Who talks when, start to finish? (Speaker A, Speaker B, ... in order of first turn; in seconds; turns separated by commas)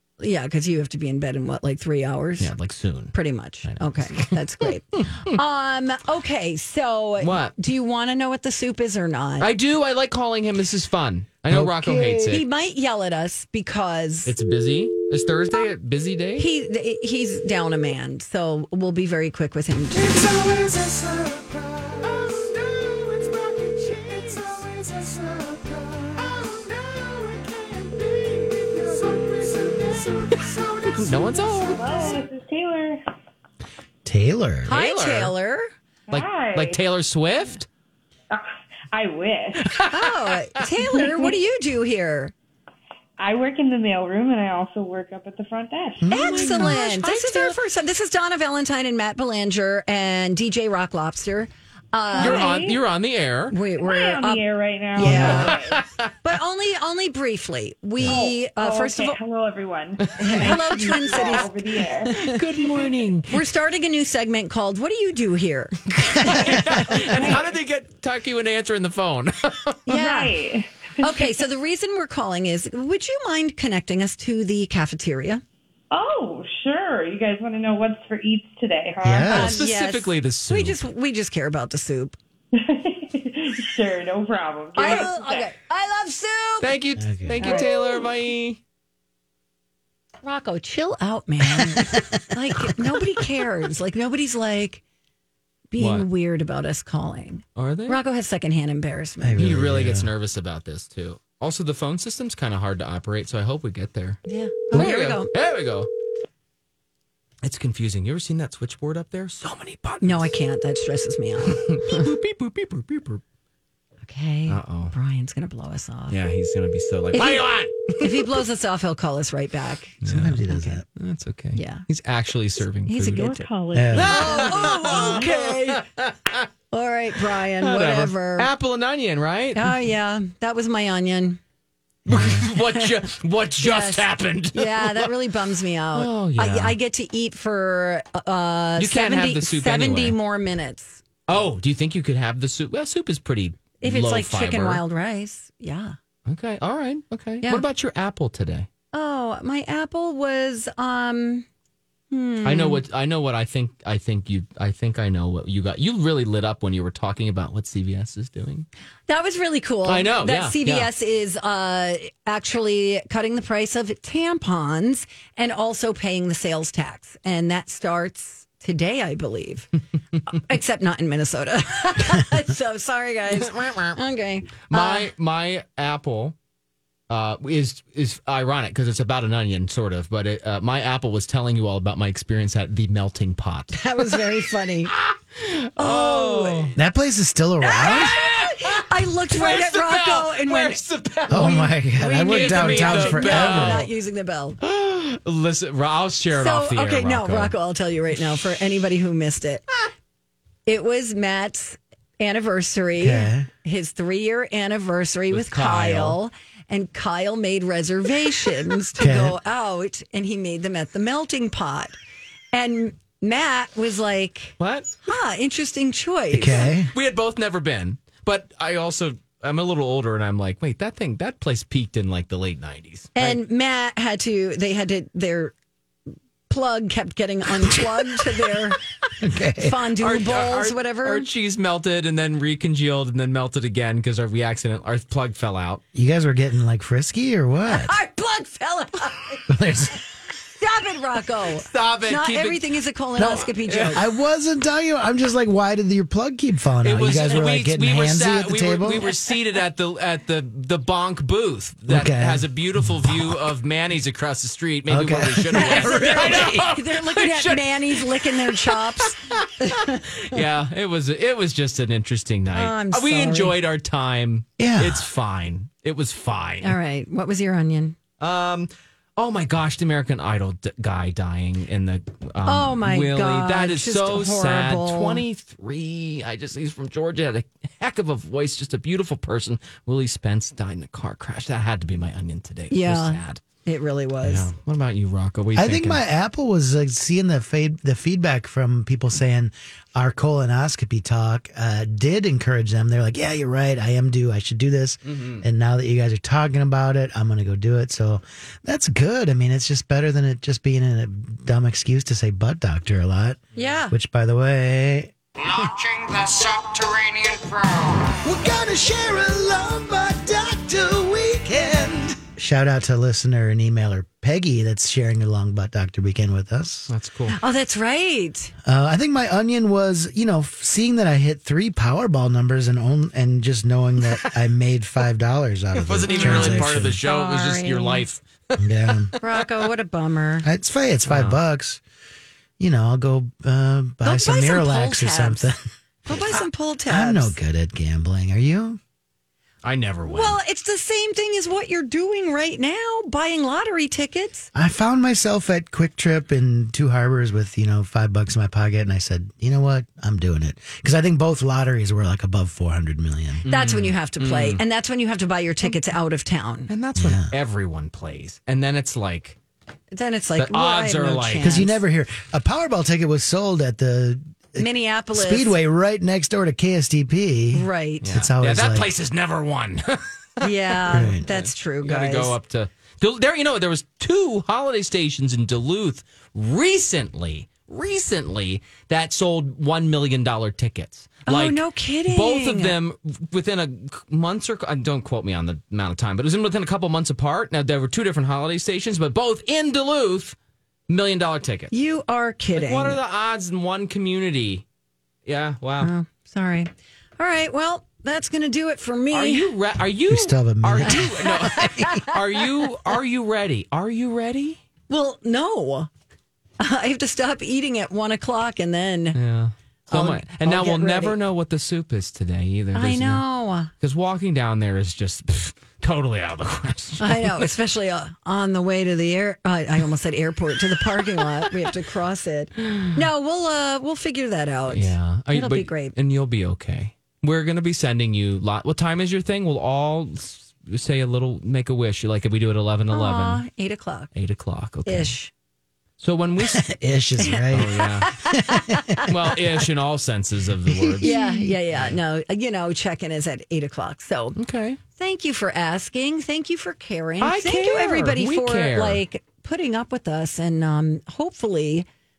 Speaker A: 0.2-2.5, Speaker B: 2.4-5.4, Speaker A: 3.1-9.5, Speaker B: 7.2-7.5, Speaker B: 9.4-12.4, Speaker C: 11.5-12.3, Speaker A: 12.2-14.3, Speaker B: 14.2-16.5, Speaker A: 16.4-20.2, Speaker C: 19.9-31.3, Speaker B: 30.9-31.9, Speaker D: 31.6-33.0, Speaker C: 34.0-34.7, Speaker B: 34.7-35.3, Speaker A: 34.7-35.7, Speaker D: 36.1-36.8, Speaker B: 36.1-37.7, Speaker D: 38.3-39.9, Speaker A: 39.9-42.3, Speaker D: 40.9-41.3, Speaker D: 43.2-46.6, Speaker C: 46.0-46.8, Speaker A: 46.1-52.5, Speaker B: 46.1-47.6, Speaker D: 52.1-52.8, Speaker B: 52.2-53.6, Speaker A: 53.5-54.4, Speaker D: 53.8-55.8, Speaker A: 55.0-55.5, Speaker B: 55.0-56.1, Speaker C: 55.0-55.4, Speaker A: 56.2-59.2, Speaker D: 58.0-62.9, Speaker B: 60.1-61.3, Speaker A: 60.2-62.4, Speaker B: 62.1-63.4, Speaker A: 63.3-67.3, Speaker B: 66.0-69.8, Speaker D: 67.1-67.4, Speaker A: 69.8-70.3, Speaker D: 69.9-71.4, Speaker A: 71.0-75.4, Speaker D: 75.9-79.6, Speaker C: 79.0-79.5, Speaker A: 79.3-82.2, Speaker B: 79.3-80.8, Speaker D: 82.5-85.5, Speaker A: 84.8-86.8, Speaker B: 86.6-88.6, Speaker C: 87.0-87.6, Speaker A: 87.4-87.9, Speaker A: 90.2-94.8, Speaker A: 95.7-99.4, Speaker B: 95.8-96.1, Speaker B: 97.5-98.0, Speaker C: 99.2-100.1, Speaker B: 99.4-104.2, Speaker A: 104.3-105.3, Speaker B: 104.7-105.9, Speaker B: 107.4-110.3, Speaker A: 110.0-112.1, Speaker B: 111.5-113.2, Speaker A: 114.0-116.2, Speaker B: 114.5-114.9, Speaker B: 116.1-118.4, Speaker A: 117.1-120.0, Speaker C: 120.0-120.8, Speaker B: 120.0-126.4, Speaker A: 121.5-121.8, Speaker A: 122.9-123.4, Speaker D: 123.1-125.2, Speaker C: 123.7-124.2, Speaker A: 124.0-125.8, Speaker A: 126.7-128.5, Speaker B: 127.6-129.8, Speaker A: 129.5-131.4, Speaker C: 132.1-132.4, Speaker B: 132.1-135.1, Speaker A: 132.1-133.0, Speaker A: 133.6-141.0, Speaker B: 135.9-136.8, Speaker B: 138.8-140.2, Speaker B: 141.3-144.8, Speaker A: 143.8-145.9, Speaker B: 146.3-148.7, Speaker A: 148.9-151.4, Speaker A: 152.1-152.8, Speaker B: 152.4-158.7, Speaker A: 159.1-169.7, Speaker B: 159.8-160.9, Speaker A: 170.3-175.1, Speaker B: 173.3-174.0, Speaker B: 174.7-176.3, Speaker B: 177.1-183.9, Speaker A: 183.7-184.9, Speaker B: 184.9-186.8, Speaker A: 185.8-186.8, Speaker C: 186.8-188.2, Speaker A: 187.6-194.6, Speaker B: 187.8-193.9, Speaker C: 191.3-193.9, Speaker B: 194.6-197.5, Speaker A: 196.3-199.7, Speaker A: 200.7-211.9, Speaker C: 203.0-203.5, Speaker B: 205.3-206.2, Speaker C: 209.0-209.3, Speaker A: 212.5-214.5, Speaker B: 214.6-214.9, Speaker A: 215.1-216.7, Speaker C: 216.3-216.9, Speaker B: 216.9-223.4, Speaker A: 223.2-225.5, Speaker A: 226.5-228.8, Speaker C: 229.2-229.8, Speaker A: 229.6-231.3, Speaker B: 230.0-235.8, Speaker C: 235.9-238.0, Speaker A: 237.7-239.5, Speaker C: 239.5-240.0, Speaker A: 240.6-244.0, Speaker B: 241.6-242.6, Speaker C: 243.2-249.1, Speaker B: 243.7-243.9, Speaker B: 246.8-266.8, Speaker C: 251.9-253.4, Speaker C: 254.9-256.7, Speaker A: 255.5-260.4, Speaker A: 262.5-263.5, Speaker C: 264.6-265.0, Speaker A: 266.6-268.0, Speaker B: 268.2-283.4, Speaker A: 272.4-275.2, Speaker A: 282.7-284.5, Speaker B: 284.2-286.0, Speaker C: 285.5-305.1, Speaker B: 295.1-295.4, Speaker A: 303.6-303.9, Speaker E: 305.4-308.2, Speaker C: 308.2-316.9, Speaker B: 316.9-317.4, Speaker A: 317.3-318.5, Speaker C: 318.6-327.0, Speaker B: 325.7-328.2, Speaker A: 326.1-328.1, Speaker C: 328.6-329.1, Speaker B: 329.1-329.4, Speaker A: 329.2-330.5, Speaker C: 330.4-331.8, Speaker B: 331.1-331.4, Speaker C: 332.6-338.8, Speaker A: 334.0-335.5, Speaker A: 336.0-337.4, Speaker B: 339.6-340.4, Speaker A: 340.1-344.5, Speaker C: 344.5-353.4, Speaker B: 353.4-354.6, Speaker A: 353.5-356.7, Speaker B: 356.7-359.4, Speaker C: 356.9-357.3, Speaker A: 359.9-361.8, Speaker B: 360.4-361.6, Speaker C: 361.4-368.9, Speaker A: 364.6-365.6, Speaker A: 367.5-368.1, Speaker B: 368.0-390.4, Speaker A: 370.4-372.3, Speaker C: 370.9-371.2, Speaker A: 381.2-382.8, Speaker B: 390.9-391.7, Speaker A: 391.7-393.0, Speaker B: 392.5-394.6, Speaker B: 395.2-395.9, Speaker A: 395.8-399.5, Speaker B: 399.1-404.6, Speaker C: 400.1-402.0, Speaker A: 400.8-402.4, Speaker A: 404.9-405.9, Speaker A: 406.6-409.2, Speaker B: 409.1-417.5, Speaker A: 409.9-411.2, Speaker A: 412.7-413.7, Speaker A: 417.0-425.9, Speaker B: 424.7-433.4, Speaker A: 432.9-434.1, Speaker B: 434.1-435.1, Speaker A: 434.9-435.3, Speaker B: 436.0-436.7, Speaker C: 436.4-439.1, Speaker A: 437.2-439.4, Speaker B: 437.5-438.2, Speaker B: 439.1-441.1, Speaker C: 440.7-441.6, Speaker A: 441.0-444.4, Speaker B: 444.4-444.8, Speaker A: 445.0-451.9, Speaker B: 447.2-449.0